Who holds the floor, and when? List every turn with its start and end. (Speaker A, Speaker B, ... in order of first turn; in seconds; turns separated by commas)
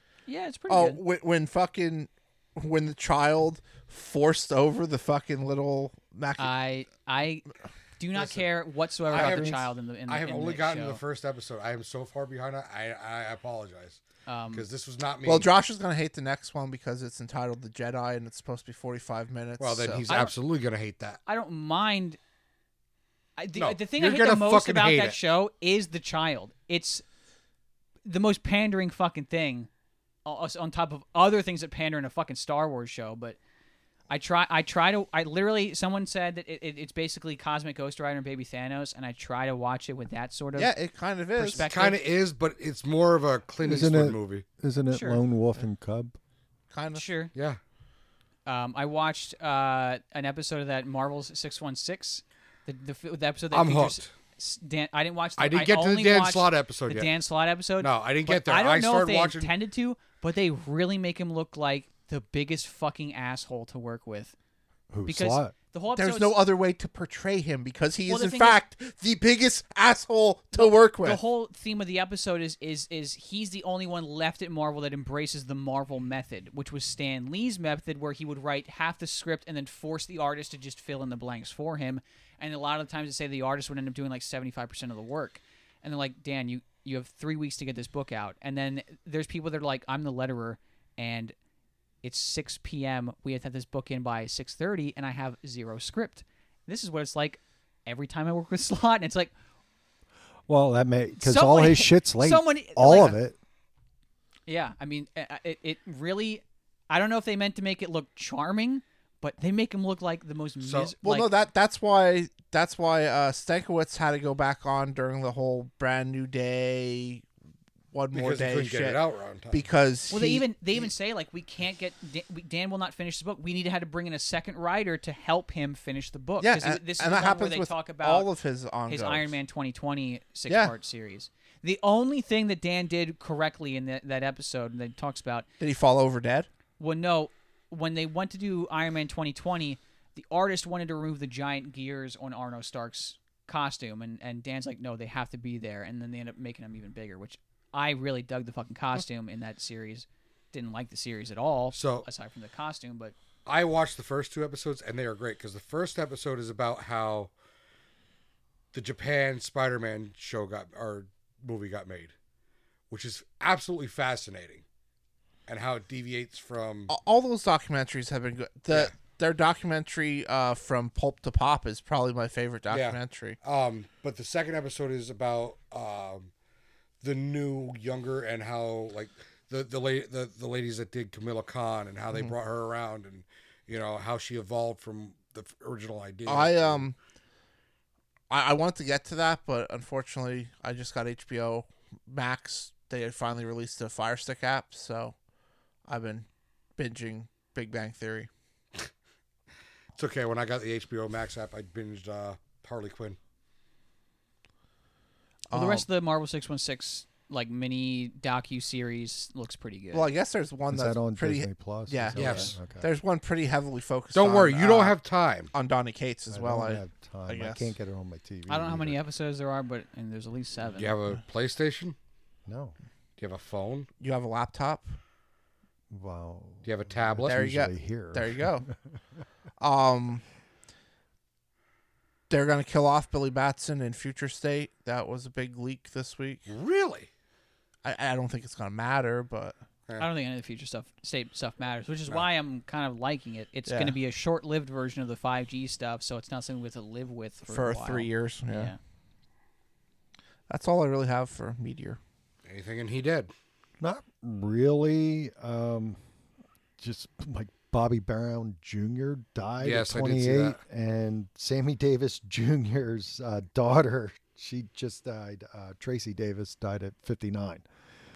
Speaker A: 0.3-1.0, Speaker B: 0.7-6.5, Speaker A: 6.4-11.0, Speaker C: 9.1-14.0, Speaker D: 9.2-9.5, Speaker A: 14.2-14.6, Speaker C: 14.5-15.5, Speaker B: 15.2-20.1, Speaker C: 19.6-21.2, Speaker A: 20.1-20.3, Speaker A: 21.3-22.2, Speaker A: 23.4-27.0, Speaker C: 23.6-25.2, Speaker A: 28.0-29.7, Speaker A: 30.2-33.4, Speaker A: 34.1-40.7, Speaker B: 40.5-41.6, Speaker A: 41.4-42.0, Speaker C: 41.4-44.4, Speaker D: 43.6-46.1, Speaker A: 44.9-45.2, Speaker B: 46.7-47.0, Speaker A: 46.9-47.3, Speaker A: 48.5-64.3, Speaker C: 53.5-54.1, Speaker C: 55.4-57.1, Speaker C: 57.8-59.5, Speaker D: 64.9-65.5, Speaker A: 65.0-66.4, Speaker B: 66.0-71.2, Speaker A: 68.1-68.6, Speaker A: 70.5-91.3, Speaker A: 92.0-99.3, Speaker D: 100.5-103.3, Speaker A: 101.2-103.2, Speaker A: 104.5-111.3, Speaker C: 110.6-110.9, Speaker B: 111.0-117.2, Speaker B: 117.9-119.0, Speaker C: 118.1-119.6, Speaker B: 119.5-120.9, Speaker A: 120.1-128.3, Speaker B: 126.4-129.3, Speaker A: 128.9-135.5, Speaker B: 130.5-130.7, Speaker B: 135.6-136.5, Speaker A: 136.8-153.1, Speaker C: 151.7-152.1, Speaker C: 153.4-157.3, Speaker C: 158.7-162.1, Speaker C: 162.9-164.6, Speaker C: 165.5-166.9, Speaker B: 166.9-173.4, Speaker C: 172.7-176.3, Speaker C: 177.0-186.8, Speaker B: 186.2-186.9, Speaker B: 188.3-195.1, Speaker B: 195.9-196.2, Speaker B: 196.8-198.3, Speaker C: 200.0-203.2, Speaker B: 205.5-205.9, Speaker A: 205.5-210.1, Speaker B: 209.9-214.9, Speaker D: 210.7-212.8, Speaker C: 212.1-212.6, Speaker C: 214.1-215.5, Speaker B: 215.5-217.7, Speaker D: 216.3-219.0, Speaker A: 218.5-220.9, Speaker C: 220.8-221.9, Speaker D: 222.5-222.7, Speaker C: 223.2-223.9, Speaker B: 224.0-224.9, Speaker D: 225.9-228.4, Speaker C: 226.6-227.3, Speaker B: 227.2-228.7, Speaker B: 229.6-230.2, Speaker B: 232.3-236.5, Speaker C: 236.5-237.1, Speaker B: 237.8-239.6, Speaker A: 240.0-248.8, Speaker B: 243.7-243.9, Speaker B: 247.4-248.7, Speaker B: 250.5-252.0, Speaker C: 252.4-253.3, Speaker D: 253.8-256.0, Speaker D: 256.8-267.6, Speaker C: 259.6-260.6